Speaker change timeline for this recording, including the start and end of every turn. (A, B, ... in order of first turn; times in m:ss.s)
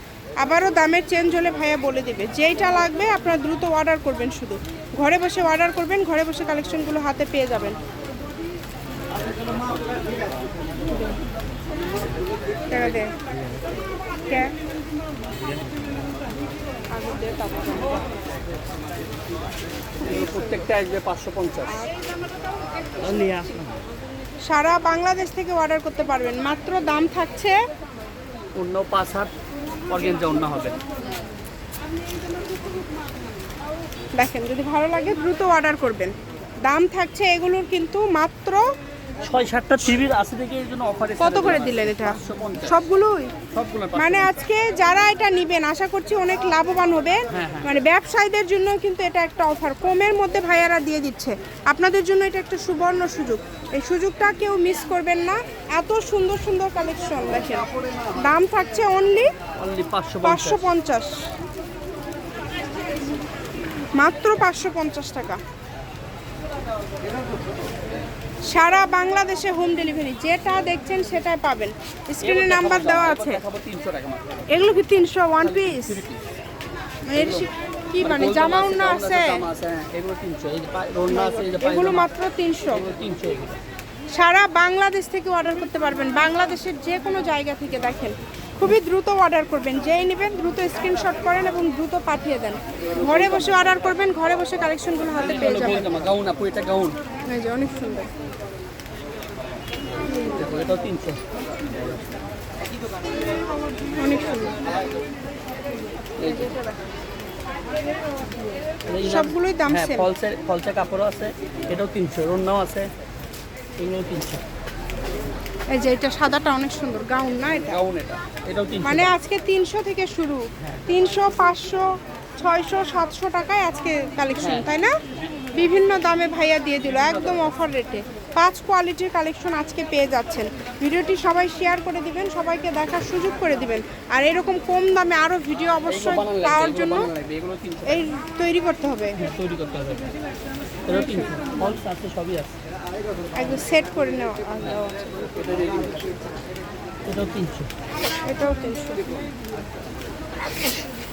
0:00.4-0:07.8 A
0:12.7-0:13.2 A
0:14.3-0:14.5 A
0:16.9-0:18.0 A
0:20.0-0:21.8 B
0:23.0-0:23.8 B
0:24.5-0:27.6 A
0:28.6-0:29.3 B
0:29.9-0:30.8 B
0:34.2-0:36.1 A
0:36.6-0:38.6 A
0:39.2-0:42.8 B
0:41.2-0:43.3 A
0:43.5-0:44.4 B
0:44.0-0:59.3 A
0:47.3-0:47.7 B
0:57.6-0:58.1 B
0:59.6-1:00.7 B
1:00.2-1:01.1 A
1:04.0-1:05.4 A
1:08.5-1:13.4 A
1:12.2-1:14.5 B
1:14.5-1:16.0 A
1:15.4-1:16.2 B
1:17.1-1:19.4 A
1:17.1-1:17.5 B
1:18.0-1:22.1 B
1:21.1-1:22.8 A
1:22.7-1:23.6 B
1:24.1-1:35.9 A
1:32.8-1:33.9 B
1:35.2-1:37.0 B
1:37.3-1:38.1 A
1:40.3-1:41.2 B
1:44.0-1:44.6 A
1:46.2-1:46.6 B
1:46.2-1:46.8 A
1:48.9-1:52.9 B
1:49.0-1:50.1 A
1:53.8-1:54.4 B
1:55.7-1:57.8 A
1:57.7-1:59.1 B
1:58.8-2:04.9 A
2:04.4-2:04.7 B
2:05.6-2:17.1 A
2:06.8-2:07.5 B
2:15.9-2:18.1 B
2:17.9-2:19.2 A
2:19.2-2:20.1 B
2:20.9-2:22.6 B
2:23.4-2:25.2 A
2:24.6-2:26.2 B
2:27.1-2:27.7 B
2:28.3-2:29.0 A